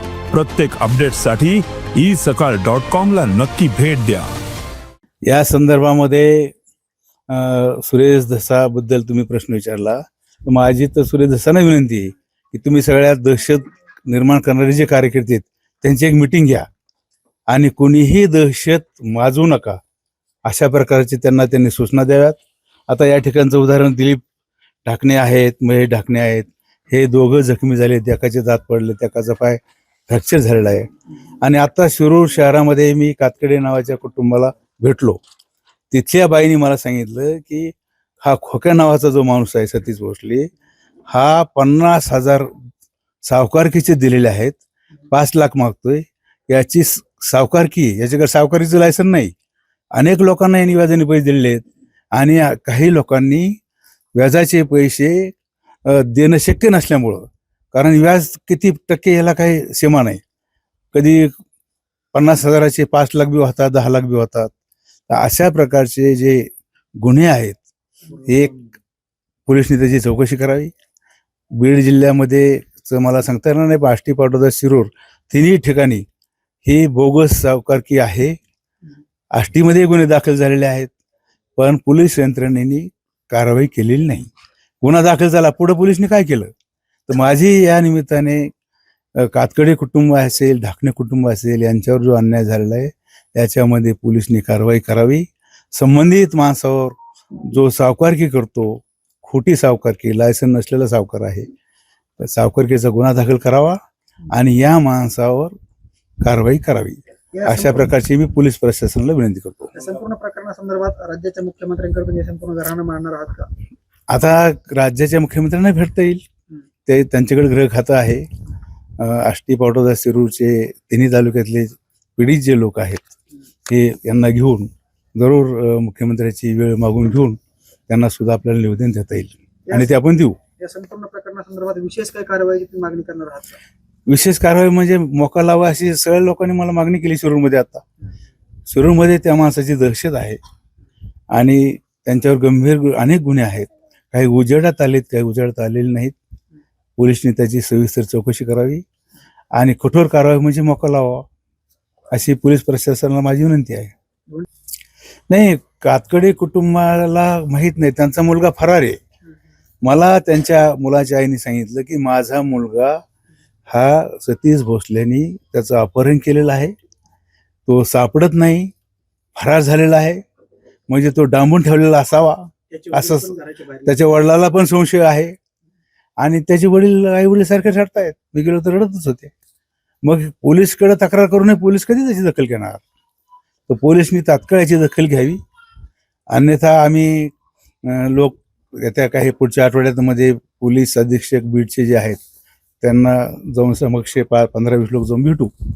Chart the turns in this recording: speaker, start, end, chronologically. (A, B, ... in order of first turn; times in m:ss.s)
0:00.3-0:04.3 A
0:05.2-0:06.5 B
0:07.3-0:16.7 B
0:17.5-0:19.8 B
0:20.4-0:22.4 B
0:22.9-0:24.2 B
0:24.8-0:30.9 B
0:31.4-0:35.2 B
0:35.9-0:40.5 B
0:41.1-0:42.5 B
0:43.2-0:49.3 B
0:49.9-0:51.6 B
0:52.1-0:53.5 B
0:54.1-0:55.3 B
0:55.8-1:00.2 B
1:00.9-1:01.3 B
1:02.1-1:04.5 B
1:05.1-1:06.5 B
1:07.0-1:08.6 B
1:09.4-1:10.7 B
1:11.5-1:16.0 B
1:16.6-1:18.4 B
1:19.3-1:20.9 B
1:21.6-1:24.3 B
1:24.8-1:26.5 B
1:27.1-1:28.5 B
1:29.2-1:41.5 B
1:42.2-1:43.8 B
1:44.3-1:45.5 B
1:46.2-1:49.8 B
1:47.3-1:47.9 C
1:49.8-1:53.5 C
1:54.1-1:56.2 B
1:56.8-1:58.3 B
1:59.0-2:03.1 B
2:03.7-2:10.4 B
2:09.7-2:10.0 C
2:10.6-2:13.6 C
2:14.1-2:17.8 B
2:18.7-2:20.4 B
2:21.3-2:26.2 B
2:27.0-2:28.8 B
2:29.5-2:31.2 B
2:32.1-2:33.9 B
2:35.3-2:39.0 B
2:39.8-2:43.0 B
2:43.7-2:46.7 B
2:47.6-2:48.7 B
2:49.4-2:50.2 B
2:50.9-2:53.3 B
2:52.7-2:54.0 C
2:53.8-2:55.4 B
2:56.2-2:59.3 B
3:00.0-3:02.8 B
3:03.7-3:05.4 B
3:06.3-3:07.3 B
3:07.8-3:12.2 B
3:12.8-3:15.5 B